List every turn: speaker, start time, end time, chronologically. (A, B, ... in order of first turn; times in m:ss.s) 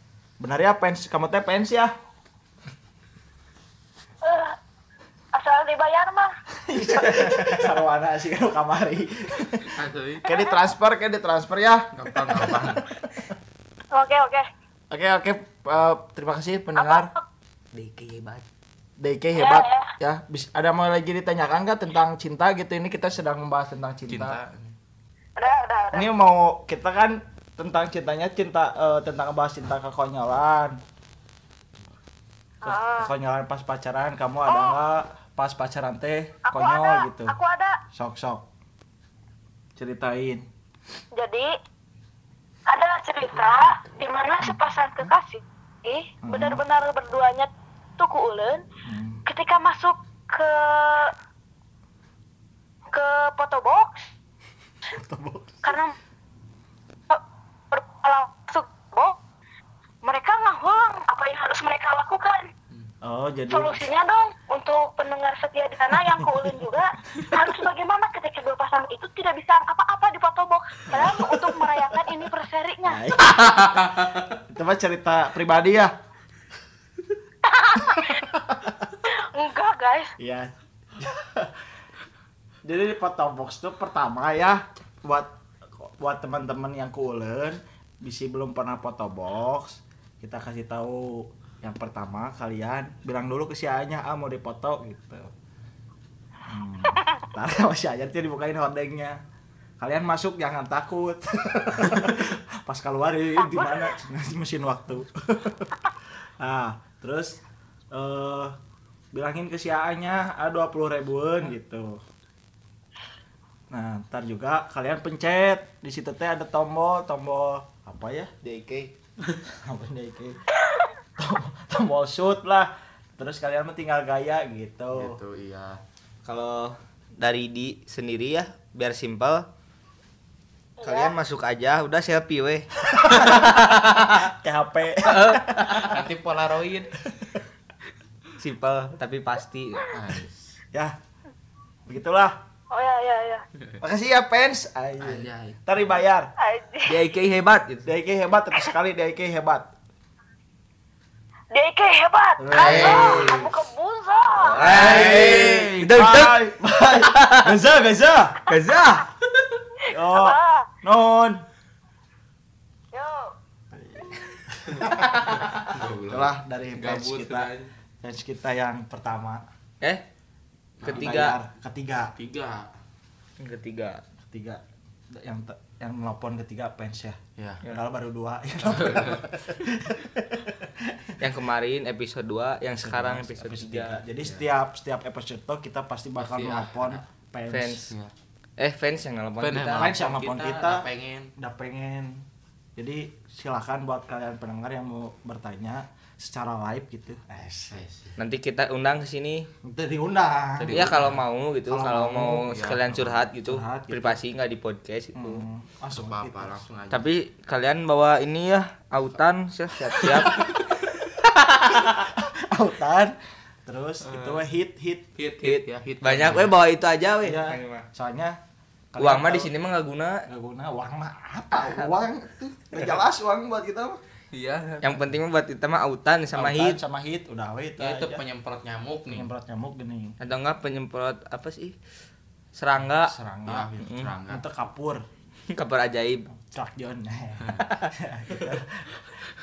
0:00.4-0:01.9 A
0:04.2-0:04.6 B
0:05.3-0:06.4 B
0:06.6-0:13.3 A
0:09.7-0:10.3 C
0:11.9-0:12.8 C
0:13.9-0:14.5 B
0:14.9-0:17.1 A
0:16.8-0:17.2 B
0:17.7-0:18.5 D
0:19.0-0:24.4 A
0:19.4-0:19.9 B
0:24.1-0:24.8 C
0:25.4-0:26.1 B
0:25.9-0:30.8 A
0:32.6-0:33.1 B
0:32.6-0:37.4 A
0:34.5-0:34.8 B
0:36.5-0:37.8 B
0:37.9-0:38.5 A
0:39.8-0:40.5 A
0:41.1-0:41.5 B
0:42.7-0:48.6 B
0:44.4-0:44.7 A
0:46.2-0:46.6 A
0:48.8-0:49.3 A
0:49.3-0:51.1 B
0:52.9-0:54.1 B
0:54.8-0:55.8 A
0:55.6-0:56.0 B
0:57.1-0:59.2 B
1:00.0-1:02.5 B
1:03.0-1:03.9 A
1:03.5-1:13.0 B
1:06.1-1:06.5 A
1:10.9-1:12.0 A
1:12.8-1:13.6 A
1:13.2-1:14.4 C
1:14.4-1:15.9 A
1:17.4-1:18.2 B
1:18.0-1:19.0 A
1:19.1-1:20.2 B
1:20.2-1:21.6 A
1:22.6-1:35.3 A
1:36.4-1:39.2 A
1:39.8-1:48.6 A
1:43.6-1:43.8 B
1:49.1-1:52.0 A
1:53.7-1:58.3 A
1:58.4-1:58.9 D
1:59.5-2:00.4 A
2:01.2-2:05.2 A
2:04.9-2:05.8 C
2:06.2-2:09.5 D
2:10.8-2:11.2 B
2:10.8-2:14.3 D
2:12.8-2:16.0 A
2:15.0-2:16.0 D
2:15.8-2:17.0 C
2:18.4-2:20.0 D
2:19.9-2:20.6 C
2:21.9-2:22.4 A
2:22.7-2:23.4 B
2:23.8-2:26.3 A
2:25.0-2:25.6 C
2:26.4-2:27.0 B
2:26.9-2:27.9 D
2:27.8-2:29.7 A
2:31.5-2:34.6 B
2:32.4-2:33.4 A
2:32.5-2:33.5 D
2:32.6-2:33.4 C
2:34.4-2:37.5 D
2:34.6-2:38.5 A
2:34.6-2:35.7 C
2:38.5-2:39.1 D
2:39.8-2:40.7 B
2:39.9-2:41.4 A
2:42.9-2:43.3 B
2:43.7-2:47.5 A
2:44.9-2:47.7 C
2:48.0-2:49.5 A
2:50.8-2:51.2 C
2:50.8-2:51.4 D
2:50.9-2:52.1 A
2:52.2-2:52.7 C
2:53.4-2:54.0 D
2:54.3-3:01.2 A
2:57.4-2:57.7 C
2:58.6-2:59.2 C
3:01.2-3:04.0 D
3:02.8-3:07.9 A
3:06.2-3:07.0 C
3:07.5-3:07.9 D
3:08.6-3:09.9 D
3:09.4-3:11.3 C
3:09.7-3:17.8 A
3:17.7-3:18.2 C
3:18.2-3:19.5 D
3:19.6-3:21.1 A
3:20.6-3:21.2 C
3:20.7-3:25.4 D
3:21.7-3:24.2 A
3:22.5-3:23.0 C
3:25.1-3:26.6 A
3:25.9-3:27.1 C
3:26.9-3:30.6 D
3:30.0-3:30.6 C
3:31.2-3:32.0 D
3:31.9-3:35.1 A
3:35.2-3:36.6 C
3:35.4-3:37.9 D
3:37.2-3:38.4 A
3:38.9-3:39.5 A
3:39.0-3:40.3 D
3:40.3-3:44.0 A
3:44.3-3:45.0 C
3:44.8-3:46.8 D
3:46.3-3:48.2 A
3:47.8-3:49.3 C
3:49.1-3:50.2 A
3:50.2-3:51.8 D
3:52.6-3:53.1 D
3:52.8-3:55.0 A
3:53.5-3:54.5 C
3:53.8-3:54.1 D
3:55.5-3:56.3 D
3:56.3-3:59.0 A
3:57.4-3:57.7 C
3:57.6-3:57.9 D